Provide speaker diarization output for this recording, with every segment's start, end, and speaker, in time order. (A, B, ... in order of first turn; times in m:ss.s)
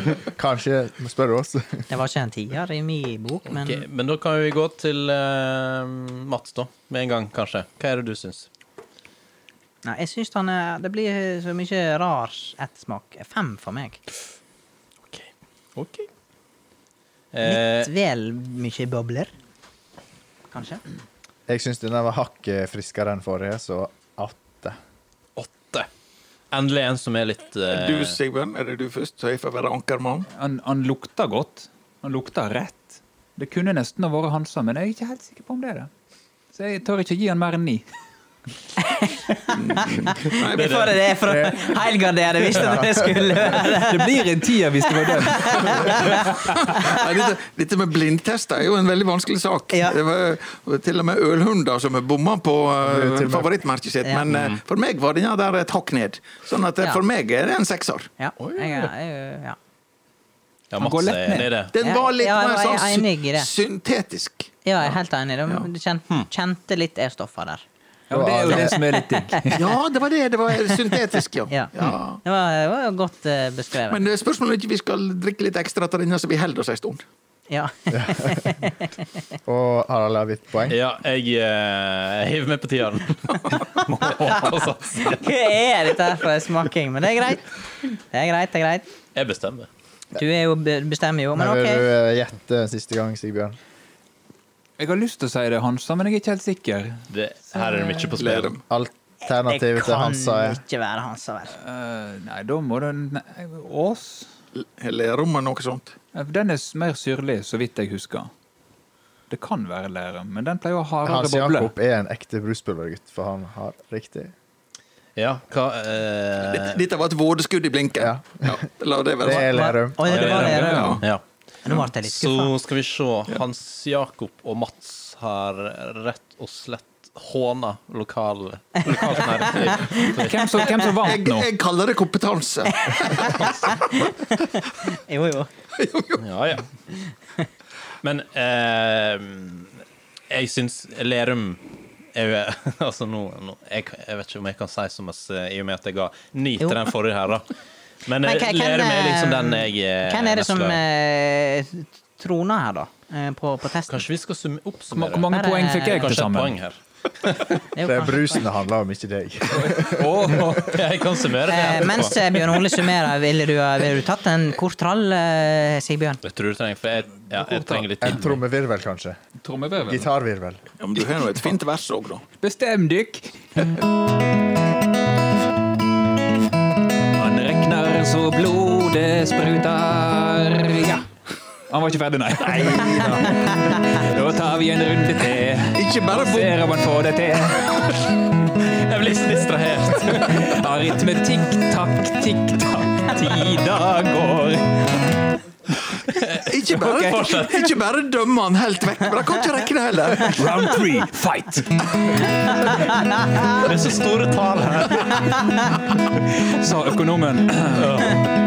0:00.4-0:01.8 A
0:01.9-0:03.8 B
0:03.5-0:08.5 C
0:09.8-0:14.0 B
0:15.1-0:16.1 C
0:17.3-0:17.9 C
0:17.4-0:19.3 B
0:20.5-0:20.8 B
0:21.5-0:24.8 A
0:25.4-0:25.9 C
0:26.5-0:28.2 C
0:27.7-0:30.3 D
0:30.3-0:35.9 E
0:36.5-0:37.8 E
0:38.8-0:44.2 B
0:39.6-0:41.0 D
0:40.5-0:40.9 C
0:41.2-0:41.7 A
0:42.5-0:43.3 A
0:43.6-0:46.2 E
0:44.8-0:47.0 B
0:45.9-0:58.1 D
0:49.7-0:50.0 B
0:52.8-0:53.5 A
0:54.3-0:54.6 C
0:58.2-0:59.6 B
0:58.4-0:58.9 C
1:00.7-1:01.7 C
1:00.8-1:01.5 E
1:01.7-1:04.5 D
1:01.8-1:03.5 B
1:04.6-1:07.6 B
1:08.1-1:09.6 E
1:08.1-1:08.8 A
1:08.5-1:09.6 B
1:09.5-1:12.2 D
1:11.5-1:14.0 B
1:13.9-1:17.0 D
1:17.5-1:18.9 B
1:17.9-1:18.5 A
1:19.5-1:20.8 A
1:20.7-1:25.2 C
1:25.0-1:28.9 B
1:29.2-1:29.7 C
1:30.2-1:31.9 B
1:31.4-1:33.6 A
1:34.8-1:37.1 E
1:37.1-1:38.5 C
1:38.2-1:38.6 D
1:38.7-1:40.6 A
1:39.3-1:41.6 B
1:41.6-1:44.3 E
1:44.6-1:46.0 D
1:46.1-1:48.3 E
1:49.3-1:51.7 E
1:51.0-1:54.3 A
1:55.2-1:56.8 C
1:56.4-1:59.5 D
1:58.0-1:58.6 A
1:59.2-2:00.2 A
1:59.3-2:01.0 B
2:00.1-2:01.2 C
2:00.1-2:01.0 D
2:00.2-2:01.0 E
2:01.6-2:02.5 B
2:01.8-2:10.7 C
2:08.8-2:10.2 B
2:10.0-2:11.5 E
2:11.0-2:13.9 D
2:12.7-2:15.5 B
2:15.8-2:16.2 D
2:16.2-2:16.7 C
2:18.0-2:21.6 C
2:22.1-2:27.5 C
2:26.6-2:26.9 B
2:28.0-2:30.8 C
2:28.2-2:34.0 B
2:33.9-2:35.3 C
2:34.9-2:36.6 E
2:35.3-2:36.1 B
2:35.8-2:37.4 C
2:37.7-2:38.4 B
2:37.8-2:40.4 A
2:39.5-2:40.8 E
2:40.5-2:42.4 C
2:41.4-2:46.2 B
2:46.2-2:48.4 C
2:47.3-2:48.2 E
2:48.0-2:49.2 A
2:49.4-2:50.1 E
2:49.8-2:50.6 A
2:50.8-2:52.3 D
2:52.4-2:53.8 E
2:57.2-3:01.1 E
3:01.7-3:08.1 E
3:02.4-3:03.8 D
3:05.7-3:06.6 D
3:08.6-3:10.6 C
3:10.1-3:15.1 E
3:16.1-3:17.8 C
3:16.4-3:20.5 D
3:20.3-3:22.8 E
3:23.5-3:25.5 C
3:26.1-3:28.2 E
3:27.8-3:28.2 C